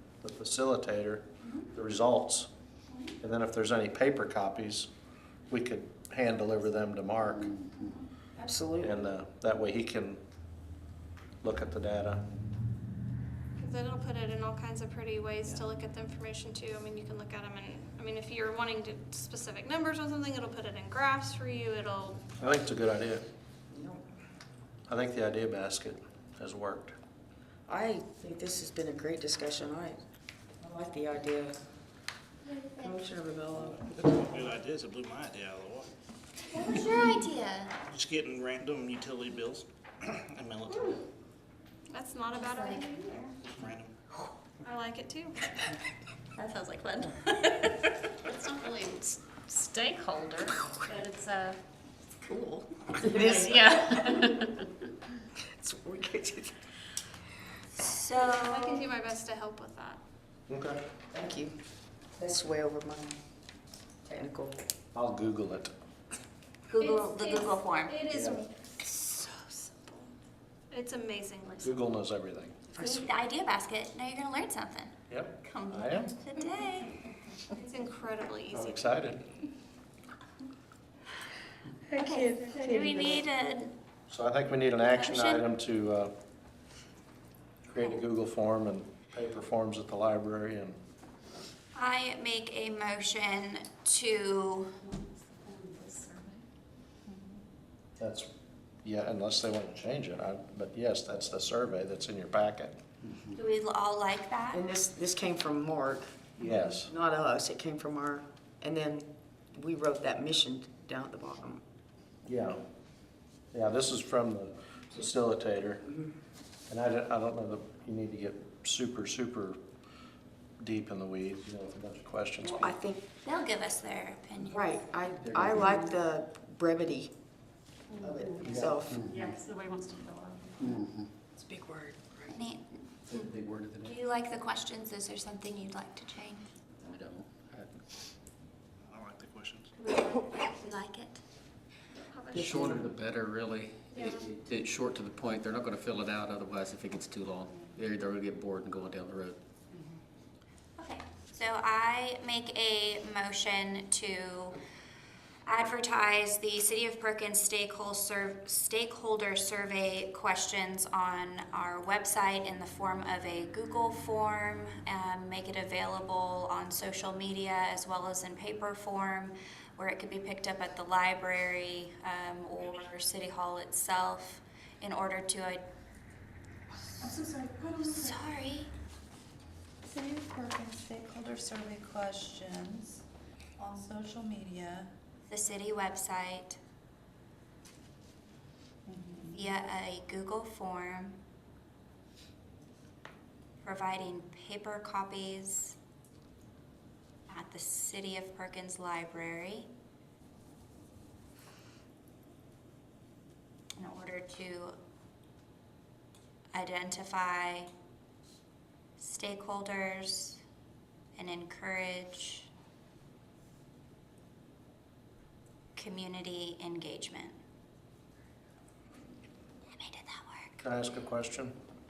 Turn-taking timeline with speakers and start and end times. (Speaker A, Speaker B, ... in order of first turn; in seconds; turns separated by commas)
Speaker A: 0.2-2.5, Speaker A: 3.2-4.9, Speaker A: 5.5-7.5, Speaker B: 8.4-9.0, Speaker A: 8.8-10.2, Speaker A: 11.4-12.2, Speaker C: 13.6-22.2, Speaker A: 22.4-23.2, Speaker B: 23.7-24.0, Speaker A: 24.9-27.0, Speaker B: 27.7-30.0, Speaker B: 30.6-31.5, Speaker D: 32.5-33.0, Speaker B: 32.8-34.0, Speaker E: 33.7-35.9, Speaker D: 36.5-37.7, Speaker E: 37.9-41.0, Speaker C: 41.9-43.1, Speaker D: 42.3-43.3, Speaker E: 43.5-43.9, Speaker C: 44.6-45.6, Speaker D: 46.4-47.7, Speaker C: 48.2-49.2, Speaker F: 49.5-51.6, Speaker B: 50.6-50.9, Speaker B: 52.3-53.9, Speaker F: 53.0-54.6, Speaker B: 55.5-56.6, Speaker D: 57.8-58.9, Speaker C: 58.1-60.0, Speaker A: 60.5-60.8, Speaker B: 61.1-61.6, Speaker B: 62.1-63.2, Speaker B: 64.0-64.5, Speaker A: 64.9-65.7, Speaker D: 66.7-68.0, Speaker C: 66.8-68.7, Speaker A: 68.1-68.4, Speaker D: 68.8-69.9, Speaker C: 70.7-71.8, Speaker A: 71.6-72.6, Speaker B: 72.7-73.1, Speaker D: 72.8-77.0, Speaker A: 75.1-76.1, Speaker C: 77.5-78.8, Speaker A: 78.5-79.3, Speaker D: 81.9-83.7, Speaker C: 81.9-82.6, Speaker B: 82.6-83.2, Speaker A: 84.1-86.1, Speaker D: 84.9-85.4, Speaker A: 87.7-90.8, Speaker D: 91.7-94.8, Speaker F: 94.9-96.1, Speaker G: 97.1-97.4, Speaker A: 98.0-98.3, Speaker A: 98.8-102.8, Speaker D: 103.3-104.6, Speaker B: 104.5-106.2, Speaker A: 106.4-106.9, Speaker B: 106.7-111.6, Speaker A: 112.2-112.6, Speaker A: 113.5-115.8, Speaker A: 116.7-119.6, Speaker A: 120.6-122.7, Speaker B: 122.4-123.0, Speaker D: 123.2-124.7, Speaker B: 124.5-127.1, Speaker H: 125.1-125.8, Speaker F: 127.9-130.8, Speaker B: 128.0-129.0, Speaker A: 128.4-128.8, Speaker H: 128.9-129.3, Speaker H: 130.6-131.1, Speaker B: 131.3-132.3, Speaker D: 132.3-133.3, Speaker H: 133.1-134.0, Speaker D: 133.8-136.5, Speaker H: 136.8-137.8, Speaker E: 138.9-139.7, Speaker D: 139.8-141.2, Speaker C: 142.1-142.6, Speaker H: 142.3-149.4, Speaker B: 142.3-142.8, Speaker D: 150.8-154.6, Speaker D: 155.4-175.6, Speaker G: 177.0-178.2, Speaker D: 177.8-178.7, Speaker G: 179.8-183.0, Speaker G: 183.6-184.9, Speaker D: 185.3-186.6, Speaker G: 188.9-189.5, Speaker D: 189.3-191.2, Speaker D: 193.6-195.8, Speaker D: 197.3-199.7, Speaker D: 203.8-204.7, Speaker D: 206.5-207.7, Speaker D: 209.0-210.4, Speaker D: 211.2-212.5, Speaker D: 215.8-217.3, Speaker D: 219.7-220.6, Speaker A: 220.6-221.5